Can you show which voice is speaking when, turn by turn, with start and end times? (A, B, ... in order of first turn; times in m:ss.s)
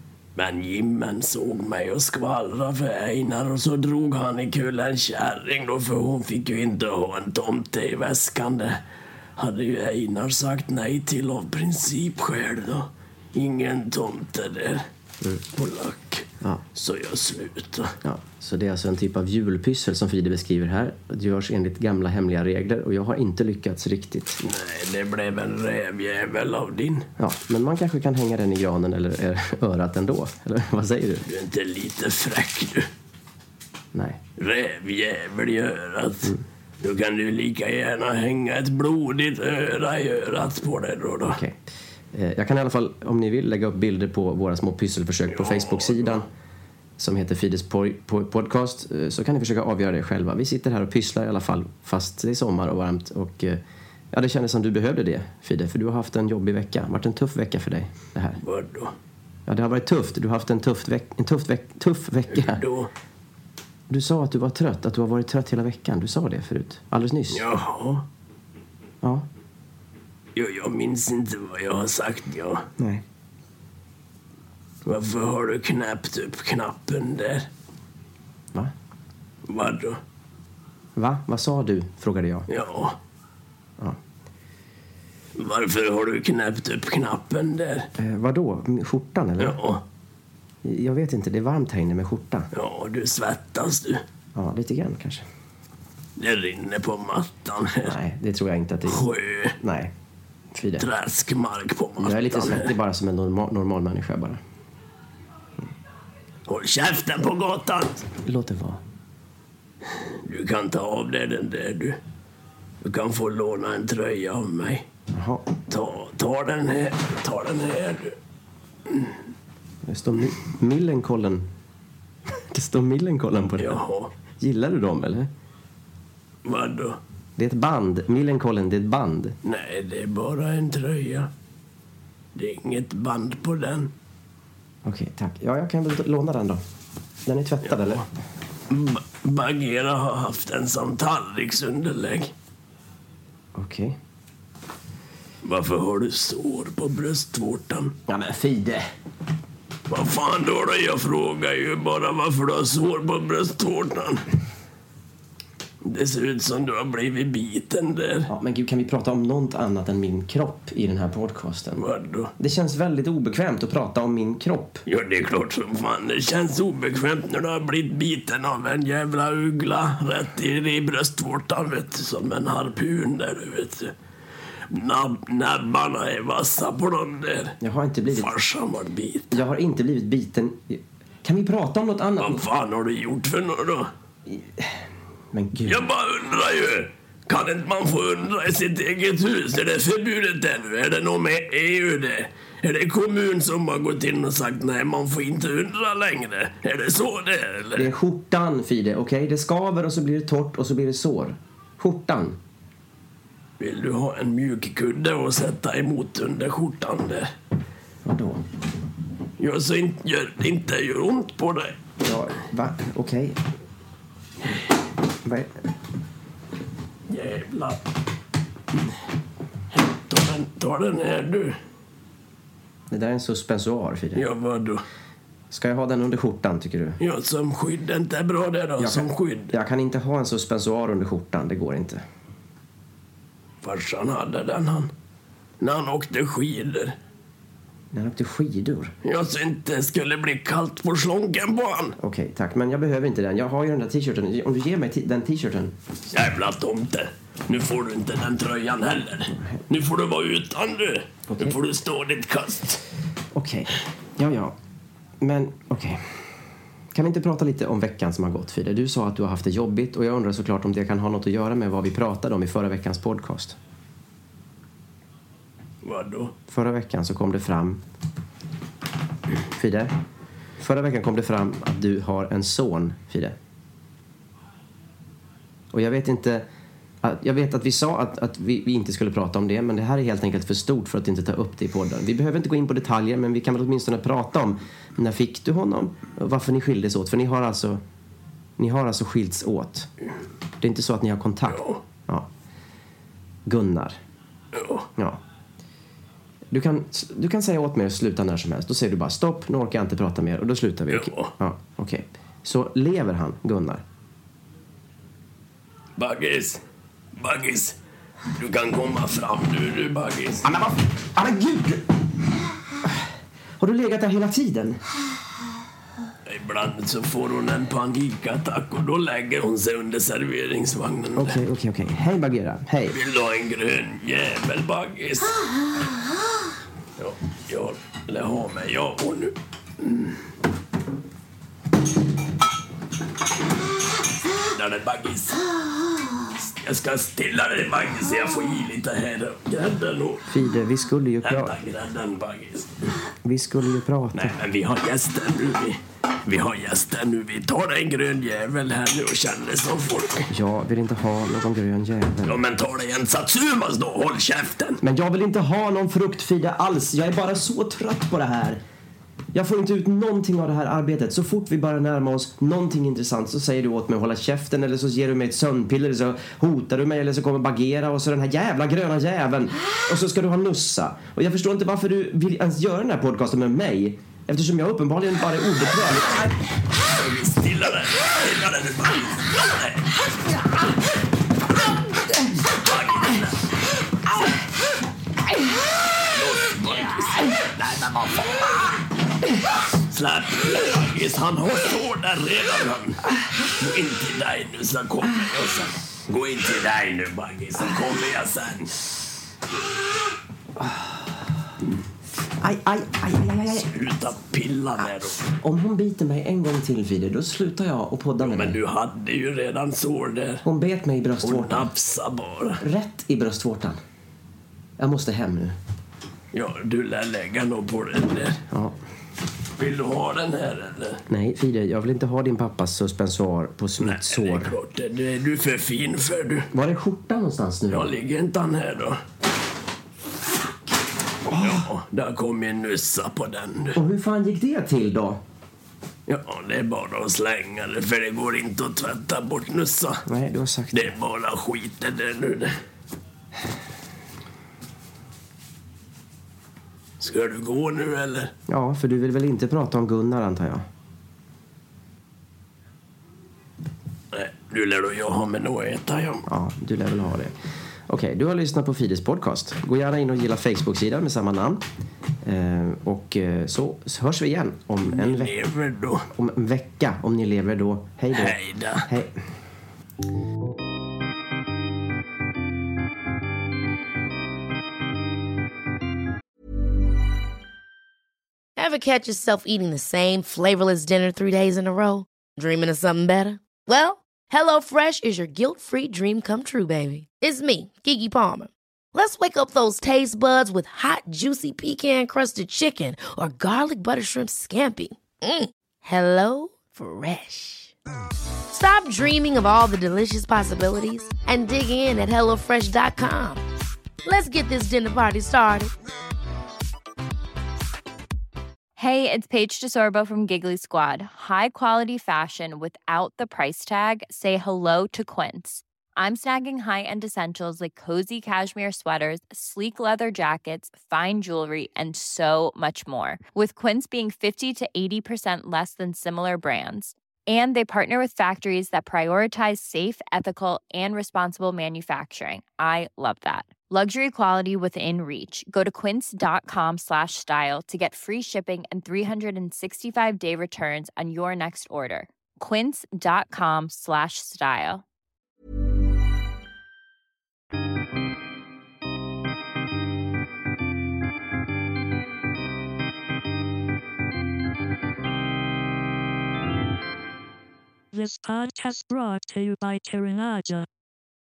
0:00.4-0:08.8 A
0:09.4-0:14.8 A
0:15.6-0:18.0 A
0:18.0-0:24.4 B
0:24.4-0:27.1 A
0:27.2-0:31.2 B
0:31.2-0:32.9 A
0:33.9-0:34.2 B
0:34.4-0:41.4 A
0:41.3-0:41.6 B
0:42.1-0:46.3 B
0:45.3-0:46.3 A
0:47.0-0:58.4 B
0:58.4-0:58.9 A
0:59.5-1:02.6 B
1:02.4-1:02.9 A
1:03.9-1:07.4 B
1:07.3-1:08.0 A
1:10.3-1:12.6 A
1:12.8-1:13.0 B
1:14.8-1:17.5 A
1:19.5-1:20.0 A
1:21.0-1:22.4 B
1:22.5-1:23.0 A
1:25.4-1:27.9 A
1:28.0-1:29.6 B
1:29.4-1:29.8 A
1:30.6-1:32.5 B
1:32.5-1:34.0 A
1:34.3-1:35.2 B
1:36.2-1:37.9 A
1:37.8-1:39.0 B
1:38.9-1:39.6 A
1:39.6-1:39.9 B
1:40.5-1:40.9 B
1:40.8-1:42.7 A
1:42.0-1:44.4 B
1:46.5-1:48.0 A
1:48.2-1:48.8 B
1:50.1-1:52.0 A
1:52.8-1:54.8 A
1:55.1-1:55.5 B
1:55.7-1:58.2 A
1:59.8-2:01.5 B
2:02.3-2:03.8 B
2:03.6-2:04.1 A
2:04.4-2:05.3 B
2:06.4-2:07.0 A
2:07.4-2:09.4 B
2:09.4-2:11.3 A
2:12.3-2:13.9 A
2:14.8-2:16.6 B
2:17.2-2:18.0 B
2:17.6-2:18.0 A
2:18.7-2:22.3 A
2:23.5-2:24.0 B
2:25.4-2:28.0 A
2:28.1-2:28.8 B
2:29.9-2:34.2 A
2:35.8-2:38.3 A
2:38.3-2:41.8 B
2:41.8-2:42.3 A
2:42.4-2:44.8 B
2:44.8-2:53.9 A
2:54.7-2:57.6 A
2:57.6-2:58.3 B
2:58.1-2:59.3 A
2:59.3-3:02.4 B
3:02.2-3:03.9 A
3:04.3-3:05.9 B
3:05.7-3:17.9 A
3:17.8-3:22.4 B
3:23.6-3:27.3 A
3:28.0-3:28.4 B
3:29.4-3:31.8 A
3:32.0-3:33.4 B
3:35.2-3:35.6 B
3:37.1-3:37.8 A
3:39.7-3:41.6 A
3:42.9-3:44.3 B
3:44.1-3:44.8 A
3:45.5-3:47.0 B
3:47.0-3:49.5 A
3:48.8-3:52.0 B
3:53.6-3:54.9 A
3:55.6-3:57.0 A
3:57.9-3:58.9 B
3:59.0-4:02.0 A
4:02.0-4:05.8 B
4:06.1-4:12.8 A
4:09.3-4:09.6 B
4:11.3-4:11.6 B
4:13.3-4:14.5 B
4:15.2-4:16.3 B
4:16.9-4:23.6 B
4:25.8-4:26.3 A
4:26.5-4:27.8 B
4:29.3-4:29.9 B
4:30.6-4:33.3 B
4:35.7-4:36.4 B
4:37.0-4:47.8 B
4:48.6-4:49.9 B
4:50.6-4:52.3 B
4:51.5-4:51.8 A
4:53.4-4:54.0 B
4:54.5-4:54.9 A
4:56.5-5:03.8 B
5:00.9-5:01.3 A
5:06.0-5:06.6 A
5:07.2-5:07.8 A
5:08.3-5:10.5 A
5:10.4-5:11.9 B
5:13.6-5:14.8 B
5:16.2-5:21.4 A
5:21.1-5:23.0 B
5:22.9-5:25.8 A
5:27.0-5:30.1 A
5:34.4-5:35.4 A
5:36.3-5:40.3 A
5:40.3-5:41.6 B
5:41.2-5:42.7 A
5:43.2-5:44.4 B
5:44.1-5:50.3 A
5:50.3-5:52.4 B
5:52.2-5:54.8 A
5:54.8-5:58.6 B
5:59.3-6:16.3 B
6:16.8-6:20.4 A
6:22.1-6:24.3 A
6:26.0-6:28.8 A
6:29.8-6:38.8 A
6:40.6-6:41.2 B
6:42.4-6:43.7 B
6:43.5-6:45.2 A
6:45.3-6:48.6 B
6:48.2-6:50.4 A
6:50.4-6:51.7 B
6:51.2-6:52.6 A
6:52.6-6:53.8 B
6:54.8-6:55.6 B
6:56.3-6:58.4 A
6:58.5-6:58.8 B
6:59.6-7:01.0 A
7:01.1-7:04.5 B
7:03.8-7:06.5 A
7:06.5-7:07.9 B
7:07.7-7:09.0 A
7:11.3-7:11.6 B
7:11.3-7:13.8 A
7:13.7-7:15.2 B
7:16.1-7:20.0 A
7:20.0-7:20.9 B
7:20.7-7:22.6 A
7:27.0-7:28.3 A
7:28.5-7:30.6 B
7:34.1-7:36.3 A
7:36.3-7:37.4 B
7:37.9-7:41.6 B
7:42.2-7:45.3 B
7:44.9-7:46.1 A
7:46.1-7:49.2 B
7:48.1-7:48.9 A
7:58.6-8:17.7 C
8:18.5-8:23.4 C
8:24.0-8:25.7 C
8:28.8-9:04.8 D
9:17.9-9:20.6 E